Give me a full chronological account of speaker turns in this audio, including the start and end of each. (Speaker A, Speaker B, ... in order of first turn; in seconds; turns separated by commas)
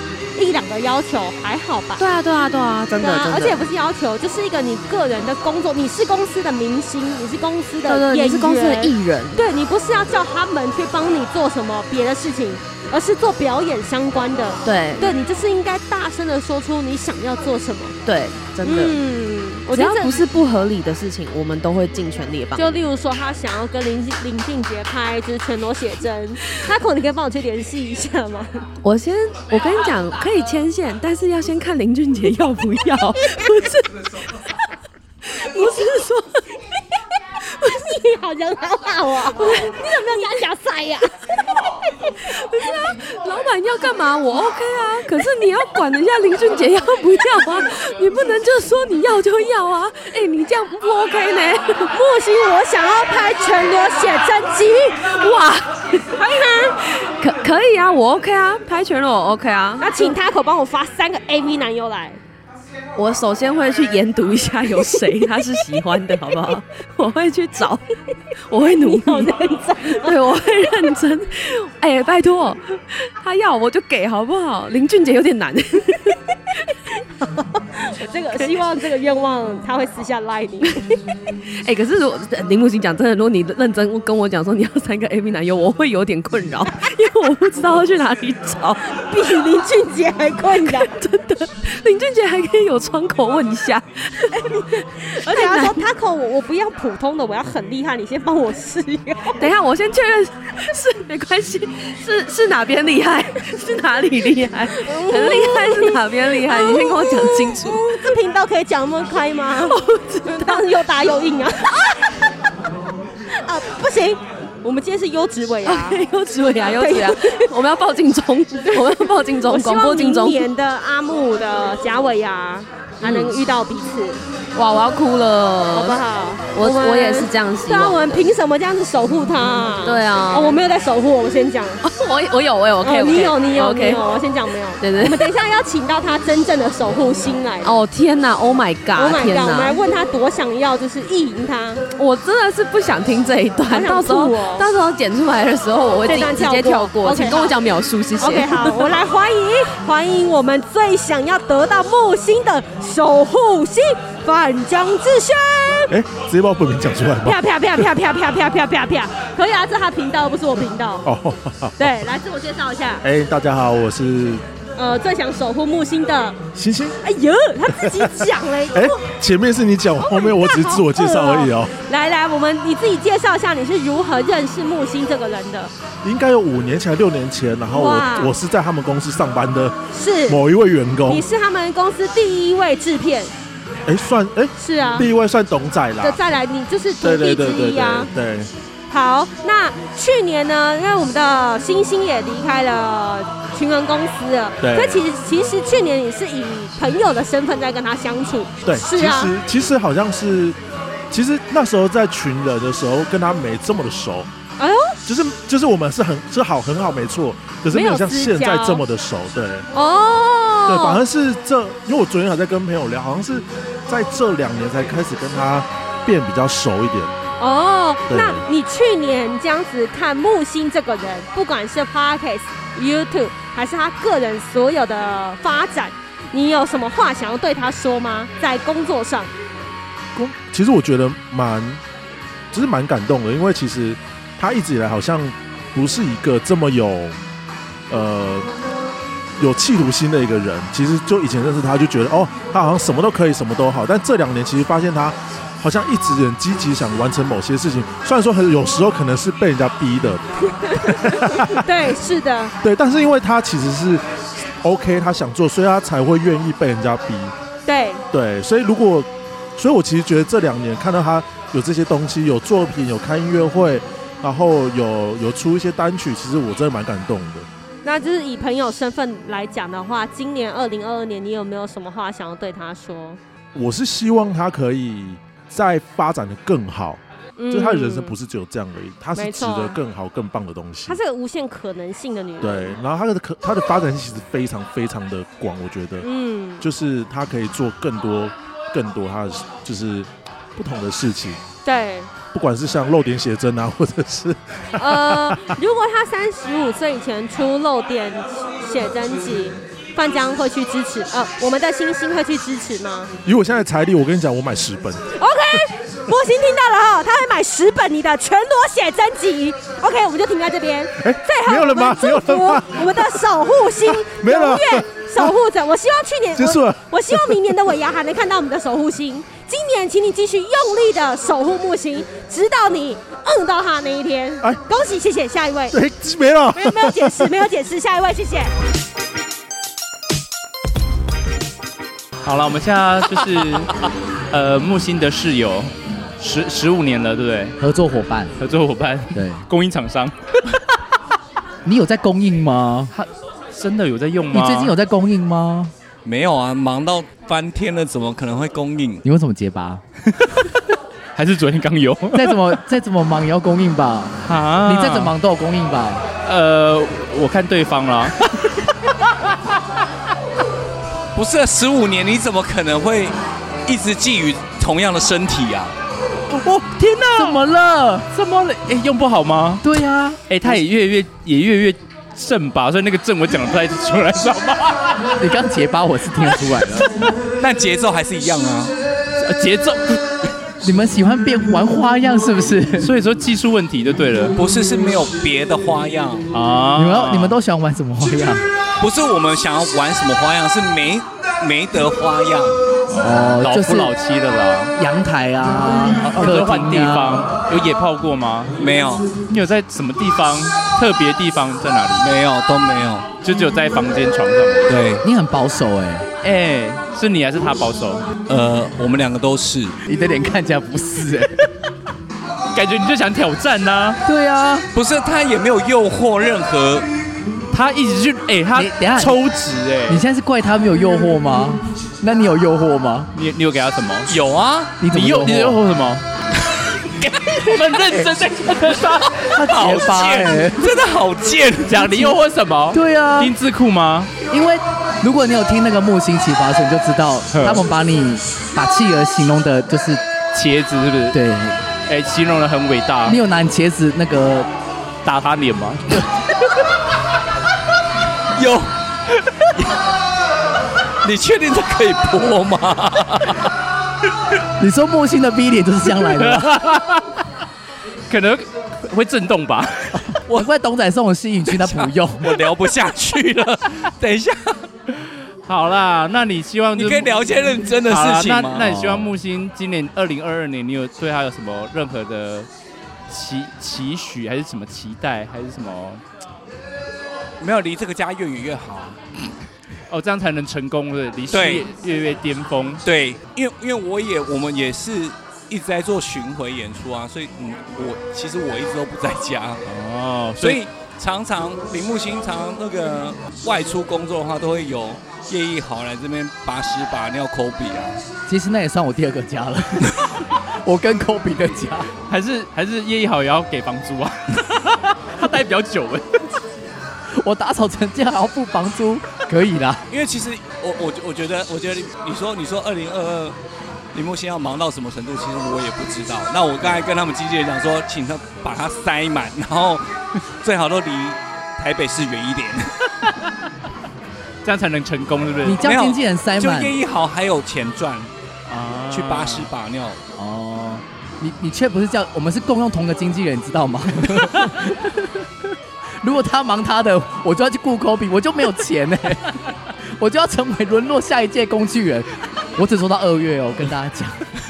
Speaker A: 0.3-2.0, Speaker B: 2.0-3.6, Speaker A: 3.0-17.9, Speaker B: 7.8-9.5, Speaker B: 14.6-15.1, Speaker B: 18.0-19.0, Speaker A: 18.6-20.2, Speaker B: 19.7-22.8, Speaker A: 22.6-28.5, Speaker B: 28.8-34.1, Speaker B: 35.2-36.4, Speaker B: 37.5-37.8, Speaker A: 37.6-41.1, Speaker B: 39.3-40.4, Speaker B: 42.2-51.9, Speaker A: 51.9-55.0, Speaker B: 55.1-56.1, Speaker A: 56.1-56.8, Speaker B: 56.9-60.1, Speaker A: 59.8-62.2, Speaker B: 63.0-67.8, Speaker A: 64.8-65.2, Speaker B: 68.5-69.3, Speaker A: 68.8-70.2, Speaker B: 69.8-76.2, Speaker A: 77.8-80.9, Speaker B: 81.5-88.9, Speaker A: 89.0-90.9, Speaker B: 90.6-95.8, Speaker A: 94.3-99.4, Speaker B: 99.4-108.2, Speaker A: 104.8-111.7, Speaker B: 109.5-111.1, Speaker A: 113.3-116.0, Speaker B: 115.6-120.5, Speaker A: 116.8-117.4, Speaker A: 118.7-124.2, Speaker B: 123.0-123.3, Speaker B: 124.5-126.0, Speaker A: 125.7-131.8, Speaker B: 126.5-128.3, Speaker B: 129.8-130.6, Speaker B: 131.8-134.0, Speaker A: 132.8-137.7, Speaker B: 134.8-135.3, Speaker B: 137.6-139.8, Speaker A: 138.9-141.8, Speaker B: 141.9-148.9, Speaker A: 143.7-144.7, Speaker A: 146.1-147.5, Speaker A: 148.2-155.9, Speaker C: 155.9-157.8, Speaker A: 157.2-161.1, Speaker C: 161.0-161.9, Speaker A: 161.8-163.0, Speaker C: 163.0-164.4, Speaker A: 164.8-166.4, Speaker C: 166.5-167.0, Speaker A: 167.0-169.0, Speaker C: 167.7-168.2, Speaker C: 168.7-171.7, Speaker A: 170.0-175.7, Speaker C: 176.0-181.2, Speaker A: 177.7-178.3, Speaker A: 179.9-180.4, Speaker A: 181.1-183.3, Speaker C: 183.9-186.2, Speaker A: 184.6-185.1, Speaker A: 186.0-188.1, Speaker C: 187.0-188.5, Speaker A: 188.9-199.3, Speaker C: 194.6-195.0, Speaker C: 198.6-200.6, Speaker C: 201.1-204.3, Speaker A: 204.6-204.9, Speaker C: 205.1-209.7, Speaker A: 207.7-208.8, Speaker A: 209.7-211.0, Speaker C: 210.7-217.1, Speaker A: 217.4-229.3, Speaker C: 218.1-218.4, Speaker C: 230.1-231.8, Speaker C: 232.5-237.2, Speaker C: 237.9-238.5, Speaker C: 239.4-251.6, Speaker A: 250.7-252.5, Speaker C: 252.6-254.0, Speaker C: 254.6-257.3, Speaker A: 257.7-258.0, Speaker C: 258.1-267.5, Speaker A: 267.8-273.2, Speaker C: 273.5-281.0, Speaker A: 277.4-278.1, Speaker A: 279.1-279.8, Speaker A: 280.9-282.8, Speaker C: 282.4-286.1, Speaker A: 286.0-286.6, Speaker C: 286.6-291.4, Speaker A: 291.6-292.1, Speaker C: 292.3-295.5, Speaker A: 294.8-303.1, Speaker C: 303.2-305.0, Speaker A: 305.2-325.8, Speaker C: 311.0-313.2, Speaker C: 313.8-315.3, Speaker C: 316.4-317.4, Speaker C: 325.7-327.3, Speaker A: 326.5-328.5, Speaker D: 332.2-333.7, Speaker D: 334.3-337.6, Speaker E: 337.6-338.3, Speaker D: 338.4-340.1, Speaker E: 339.1-339.4, Speaker E: 341.6-342.9, Speaker D: 342.9-344.7, Speaker E: 344.3-345.7, Speaker F: 346.0-349.0, Speaker E: 349.0-349.8, Speaker D: 351.1-352.6, Speaker E: 352.1-356.0, Speaker D: 354.2-355.1, Speaker D: 356.2-358.3, Speaker F: 361.1-365.7, Speaker D: 366.3-367.4, Speaker E: 367.1-368.1, Speaker D: 368.1-369.6, Speaker E: 369.6-370.6, Speaker D: 370.3-375.1, Speaker E: 375.2-376.9, Speaker F: 377.4-378.7, Speaker D: 379.2-380.0, Speaker E: 380.6-382.9, Speaker D: 382.8-384.4, Speaker F: 384.4-386.3, Speaker D: 386.3-387.4, Speaker E: 386.7-388.4, Speaker F: 388.8-392.6, Speaker D: 392.9-394.7, Speaker E: 393.0-393.9, Speaker E: 394.8-397.3, Speaker D: 396.0-398.5, Speaker F: 398.6-399.1, Speaker D: 399.3-402.1, Speaker F: 402.0-403.1, Speaker D: 403.2-404.7, Speaker F: 404.7-405.0, Speaker E: 405.0-406.1, Speaker D: 406.2-408.1, Speaker F: 408.3-409.8, Speaker E: 409.9-411.3, Speaker D: 412.5-414.0, Speaker E: 414.0-414.6, Speaker F: 414.7-416.9, Speaker D: 417.5-420.0, Speaker E: 418.5-419.2, Speaker E: 419.9-423.1, Speaker D: 423.1-424.1, Speaker F: 424.1-424.8, Speaker E: 424.8-425.6, Speaker D: 424.9-426.1, Speaker D: 427.4-429.3, Speaker E: 429.3-430.7, Speaker F: 429.4-431.8, Speaker D: 431.7-434.1, Speaker E: 431.8-432.1, Speaker E: 432.7-433.3, Speaker E: 434.3-440.0, Speaker D: 437.3-437.6, Speaker D: 440.3-441.2, Speaker E: 441.1-441.6, Speaker D: 441.9-443.2, Speaker E: 443.0-444.5, Speaker D: 445.0-445.8, Speaker F: 448.4-448.7, Speaker F: 451.0-453.4, Speaker E: 454.6-456.5, Speaker D: 456.2-457.0, Speaker D: 458.1-460.0, Speaker E: 460.3-462.3, Speaker F: 461.5-464.6, Speaker D: 465.5-472.5, Speaker F: 466.7-468.8, Speaker E: 468.6-469.1, Speaker D: 473.1-476.0, Speaker F: 477.4-479.0, Speaker D: 479.9-482.8, Speaker F: 481.3-481.6, Speaker F: 482.8-489.6, Speaker D: 489.6-490.6, Speaker F: 490.4-498.0, Speaker E: 498.3-499.9, Speaker E: 500.6-501.9, Speaker D: 502.1-506.1, Speaker E: 507.2-509.8, Speaker F: 509.9-513.4, Speaker F: 513.9-519.8, Speaker F: 520.4-522.7, Speaker D: 524.4-525.8, Speaker E: 525.4-526.8, Speaker F: 525.6-528.1, Speaker D: 528.5-529.5, Speaker F: 528.9-530.0, Speaker E: 530.2-534.6, Speaker E: 536.0-539.4, Speaker E: 540.0-544.2